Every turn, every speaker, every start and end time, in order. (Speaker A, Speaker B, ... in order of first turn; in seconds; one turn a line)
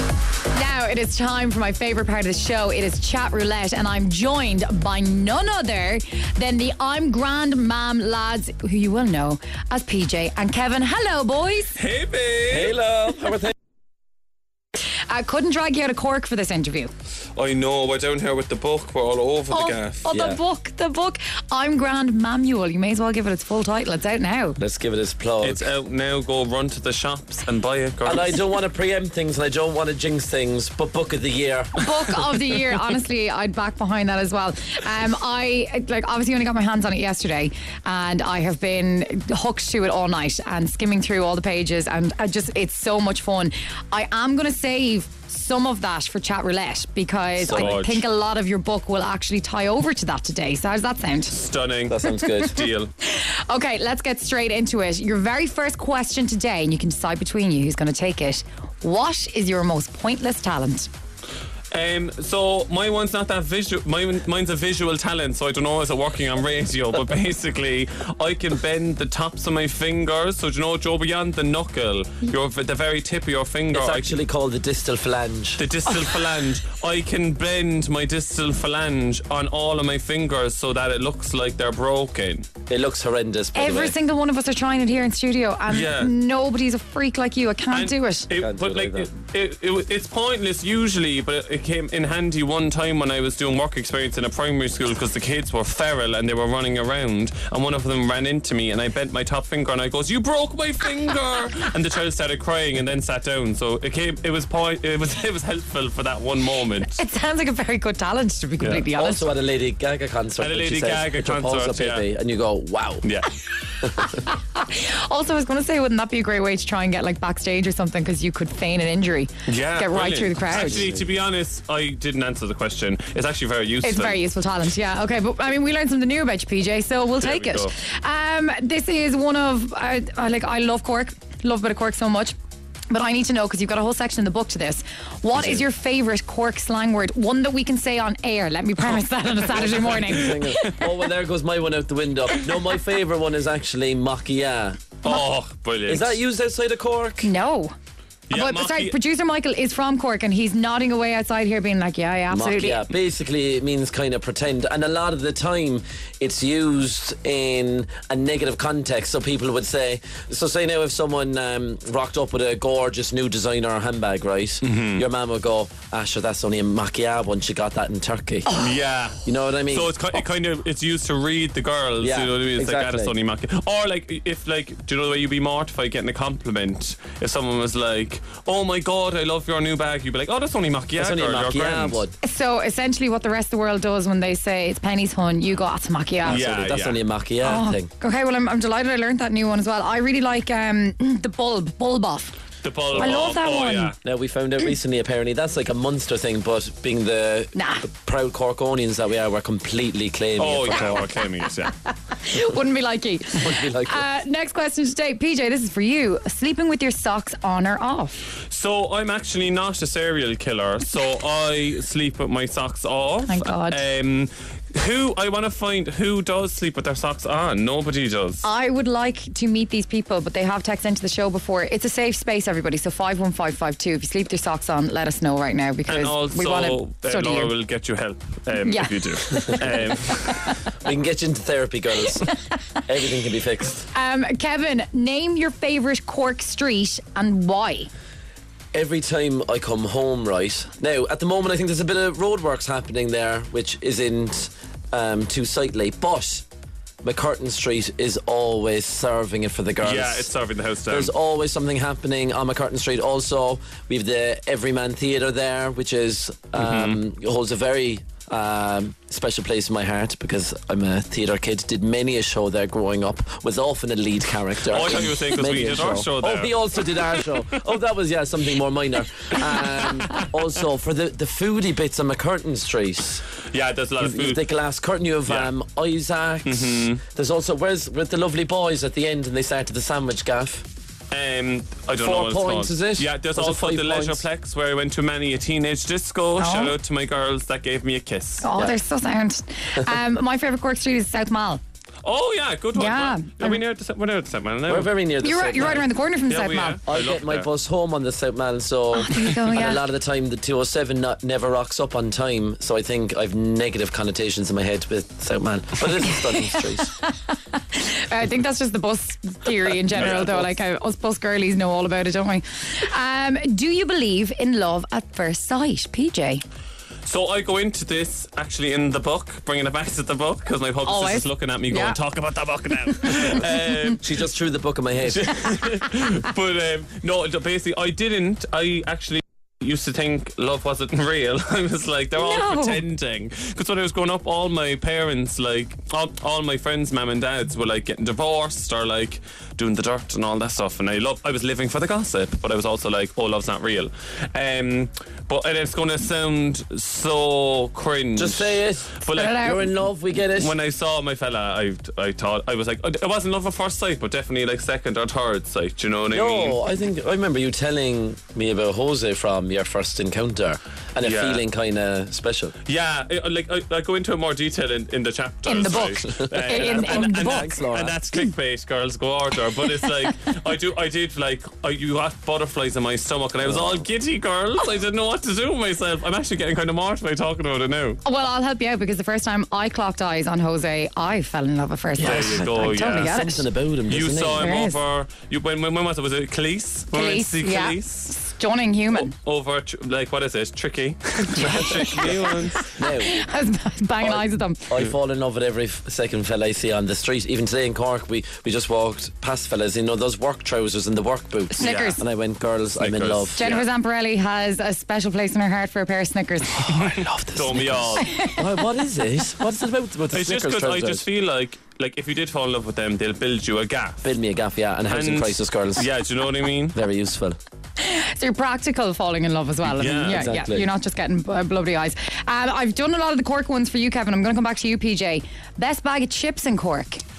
Speaker A: 0.5-11.8
Speaker B: 11.7-12.8
Speaker C: 12.5-13.5
Speaker A: 15.1-16.9
Speaker B: 17.3-20.1
Speaker A: 19.5-24.6
Speaker C: 20.1-20.4
Speaker C: 24.6-25.6
Speaker B: 25.4-28.4
Speaker C: 28.0-31.7
Speaker A: 31.8-51.3
Speaker C: 47.4-47.8
Speaker B: 47.5-48.0
Speaker B: 51.3-52.9
Speaker C: 51.9-52.6
Speaker A: 53.0-60.9
Speaker B: 61.7-74.2
Speaker C: 73.7-75.6
Speaker B: 75.6-82.5
Speaker C: 82.7-83.9
Speaker A: 83.5-88.3
Speaker B: 85.7-86.1
Speaker B: 87.7-107.0
Speaker C: 88.3-89.1
Speaker A: 106.8-109.3
Speaker B: 108.6-108.9
Speaker C: 108.9-113.0
Speaker B: 110.4-112.0
Speaker B: 113.0-113.3
Speaker A: 113.9-120.9
Speaker B: 119.5-124.2
Speaker C: 120.5-121.0
Speaker A: 123.8-132.3
Speaker B: 127.2-127.7
Speaker A: 132.9-140.8
Speaker C: 135.3-135.6
Speaker C: 139.5-145.2
Speaker B: 145.0-146.2
Speaker C: 145.8-147.3
Speaker A: 147.2-147.7
Speaker B: 148.3-148.9
Speaker A: 148.3-152.8
Speaker C: 152.3-168.5
Speaker B: 164.6-165.0
Speaker B: 168.5-182.0
Speaker C: 169.2-170.0
Speaker C: 172.0-173.1
Speaker C: 180.9-182.2
Speaker A: 182.2-186.4
Speaker C: 186.2-187.9
Speaker B: 186.2-187.0
Speaker A: 187.4-192.3
Speaker B: 192.6-193.9
Speaker A: 193.0-193.9
Speaker C: 194.0-201.0
Speaker A: 197.5-197.8
Speaker B: 200.4-201.7
Speaker A: 201.6-208.3
Speaker C: 203.3-204.1
Speaker B: 208.5-218.4
Speaker A: 213.2-213.8
Speaker A: 218.4-227.5
Speaker B: 225.9-230.4
Speaker A: 228.6-230.6
Speaker C: 230.8-232.3
Speaker C: 232.9-233.8
Speaker A: 233.9-237.9
Speaker C: 238.7-246.4
Speaker C: 247.0-250.3
Speaker B: 249.8-251.1
Speaker C: 250.9-273.2
Speaker B: 256.6-257.0
Speaker B: 264.6-267.6
Speaker B: 269.3-270.4
Speaker B: 273.5-274.4
Speaker C: 274.0-280.6
Speaker B: 275.2-275.5
Speaker B: 276.4-277.0
Speaker B: 281.1-288.5
Speaker C: 282.0-284.2
Speaker A: 286.4-286.8
Speaker A: 288.4-291.6
Speaker B: 292.0-294.9
Speaker A: 292.7-293.6
Speaker C: 294.7-295.9
Speaker A: 295.2-296.8
Speaker B: 296.3-297.5
Speaker C: 296.9-306.9
Speaker A: 298.9-299.8
Speaker A: 306.1-316.4
Speaker C: 309.9-310.3
Speaker B: 309.9-310.5
Speaker B: 317.0-324.2
Speaker A: 320.9-322.0
Speaker A: 323.1-323.7
Speaker C: 324.0-325.4
Speaker B: 325.0-349.5
Speaker A: 332.1-332.8
Speaker C: 348.1-350.5
Speaker A: 349.1-349.7
Speaker B: 350.3-356.6
Speaker C: 356.1-362.5
Speaker B: 361.0-361.4
Speaker B: 362.6-378.0
Speaker A: 365.4-367.6
Speaker C: 365.5-368.0
Speaker C: 373.4-373.8
Speaker A: 378.0-383.5
Speaker C: 382.0-384.5
Speaker B: 382.0-383.1
Speaker B: 383.9-388.1
Speaker A: 384.4-384.8
Speaker A: 386.9-389.1
Speaker B: 389.0-392.7
Speaker A: 391.4-394.7
Speaker C: 392.0-393.2
Speaker C: 394.0-403.4
Speaker B: 401.6-402.0
Speaker A: 401.6-402.0
Speaker B: 402.7-403.6
Speaker A: 403.4-406.8
Speaker C: 406.5-411.1
Speaker B: 407.3-408.1
Speaker A: 408.0-408.4
Speaker B: 410.1-414.1
Speaker C: 414.0-415.9
Speaker B: 414.9-416.8
Speaker C: 416.7-417.4
Speaker A: 417.8-427.0
Speaker B: 419.6-420.3
Speaker C: 420.1-420.7